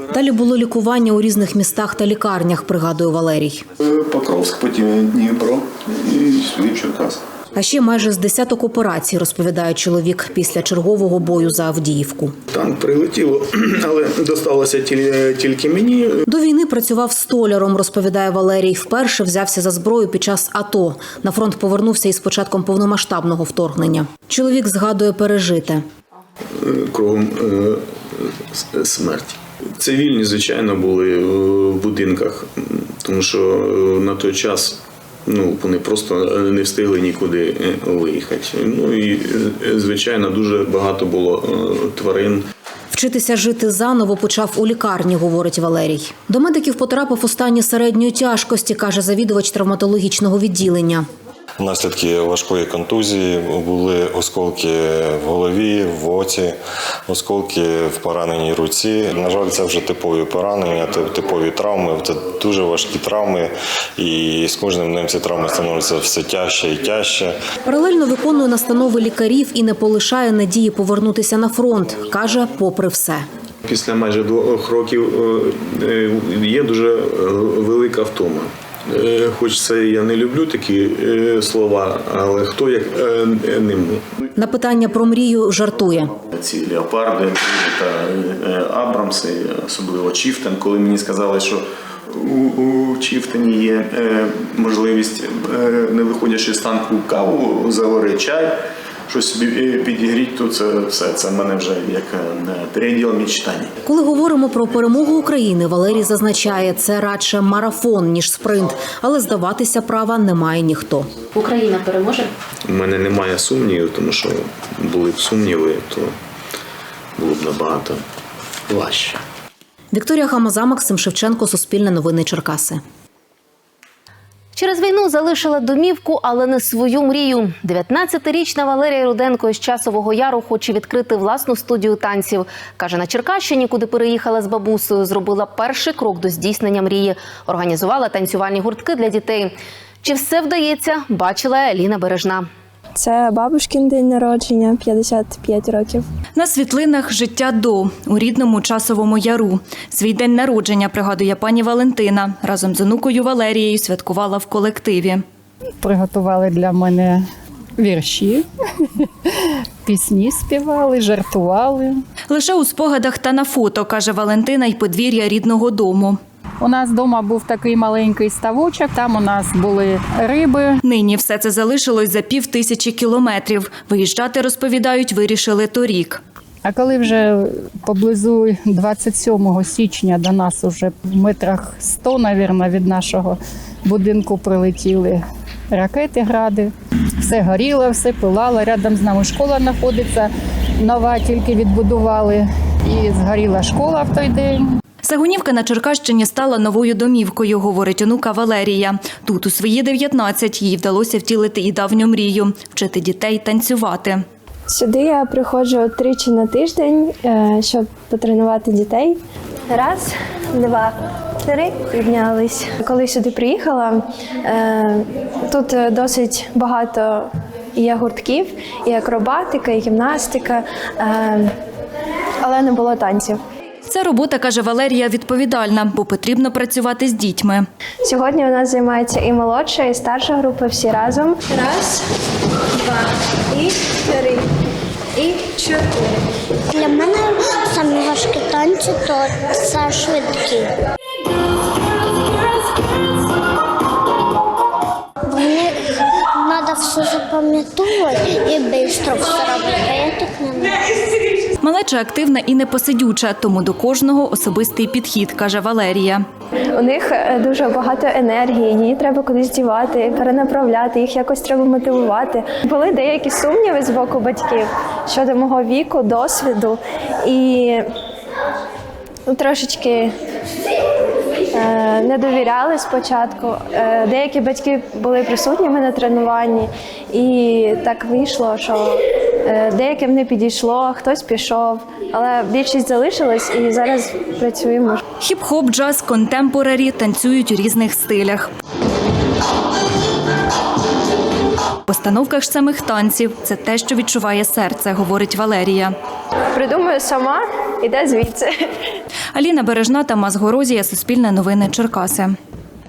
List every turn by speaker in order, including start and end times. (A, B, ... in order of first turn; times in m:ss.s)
0:00.1-0:03.6 A
0:03.8-0:07.2 B
0:07.5-0:12.3 A
0:12.5-0:16.2 B
0:16.3-0:25.8 A
0:26.6-0:42.4 B
0:42.9-0:51.0 A
0:51.6-0:56.6 C
0:57.1-1:07.4 C
1:07.6-1:13.2 A
1:13.6-1:24.0 B
1:24.4-1:26.1 A
1:26.3-1:43.7 B
1:43.8-1:51.1 A
1:51.3-1:52.3 D
1:52.6-1:56.1 B
1:57.2-1:58.0 B
1:58.7-1:59.2 B
1:59.9-2:02.8 A
2:04.5-2:22.5 D
2:23.0-2:26.0 E
2:26.4-2:35.2 F
2:35.8-2:37.2 G
2:37.8-2:38.4 G
2:39.8-2:42.0 G
2:42.3-2:46.2 F
2:46.6-2:50.8 G
2:50.8-2:56.2 F
2:56.6-3:14.7 G
3:15.0-3:24.2 F
3:24.7-3:29.2 E
3:29.7-3:30.9 E
3:31.4-3:41.5 E
3:42.4-3:43.4 E
3:43.9-3:47.7 F
3:48.0-3:52.0 E
3:52.8-3:54.4 E
3:55.2-3:56.2 E
3:56.7-4:00.7 H
4:05.3-4:10.7 H
4:11.6-4:16.2 F
4:16.7-4:27.8 E
4:29.3-4:30.1 E
4:31.5-4:45.0 E
4:45.2-4:48.5 F
4:51.9-4:55.9 F
4:56.5-4:58.5 E
4:59.3-5:02.3 F